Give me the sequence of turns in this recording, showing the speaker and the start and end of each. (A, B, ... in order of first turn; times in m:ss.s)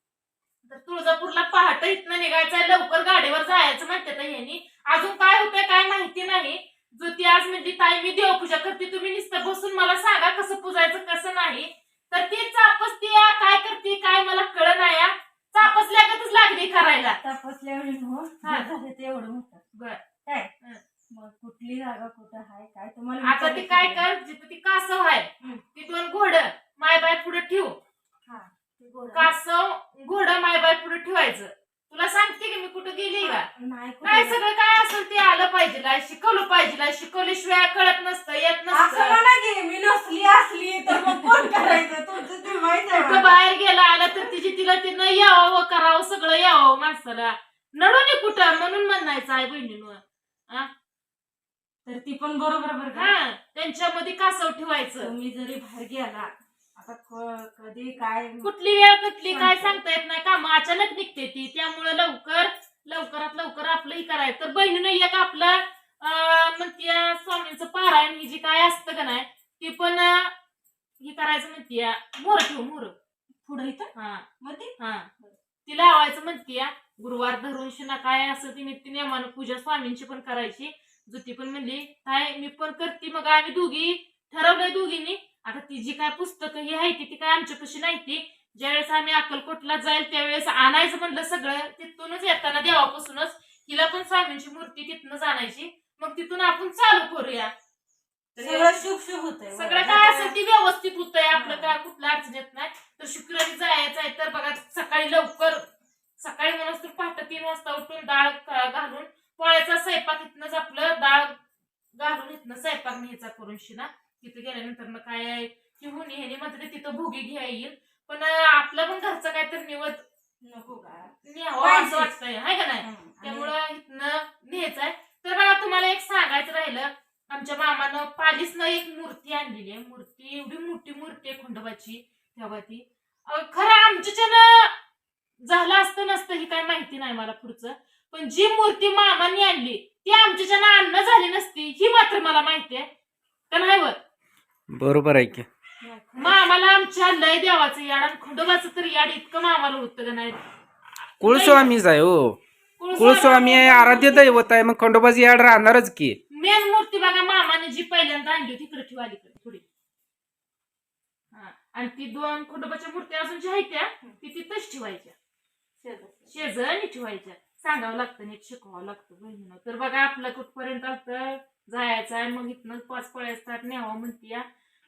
0:00.6-0:17.2 A
0:17.2-0:19.6 B
0:19.7-0:20.0 A
0:20.2-0:20.5 B
0:21.1-0:24.0 B
0:23.2-0:27.8 A
0:28.2-0:29.3 B
0:29.1-0:33.5 A
0:33.2-0:34.4 B
0:34.0-0:39.2 A
0:38.7-0:43.4 B
0:40.9-0:41.8 A
0:42.9-0:50.7 A
0:51.8-0:53.1 B
0:52.9-0:55.1 A
0:55.0-0:58.7 B
0:58.4-1:10.3 A
0:59.3-0:59.8 B
1:11.0-1:12.9 A
1:13.4-1:15.4 B
1:13.9-1:14.2 A
1:14.8-1:15.1 A
1:15.6-1:37.5 A
1:38.3-1:38.8 A
1:38.4-1:40.3 B
1:39.5-1:45.6 A
1:41.3-1:41.7 B
1:46.2-1:51.4 A
1:51.9-2:00.0 A
2:00.4-2:02.1 B
2:01.2-2:14.7 A
2:02.8-2:03.5 B
2:15.4-2:22.9 A
2:23.5-2:24.0 A
2:24.7-2:25.4 C
2:25.8-2:26.5 B
2:26.2-2:30.4 A
2:31.2-2:31.7 A
2:31.2-2:32.4 C
2:32.8-2:34.5 A
2:33.0-2:36.2 C
2:36.3-2:39.6 A
2:41.3-2:45.1 A
2:45.8-2:46.4 B
2:46.3-2:54.4 A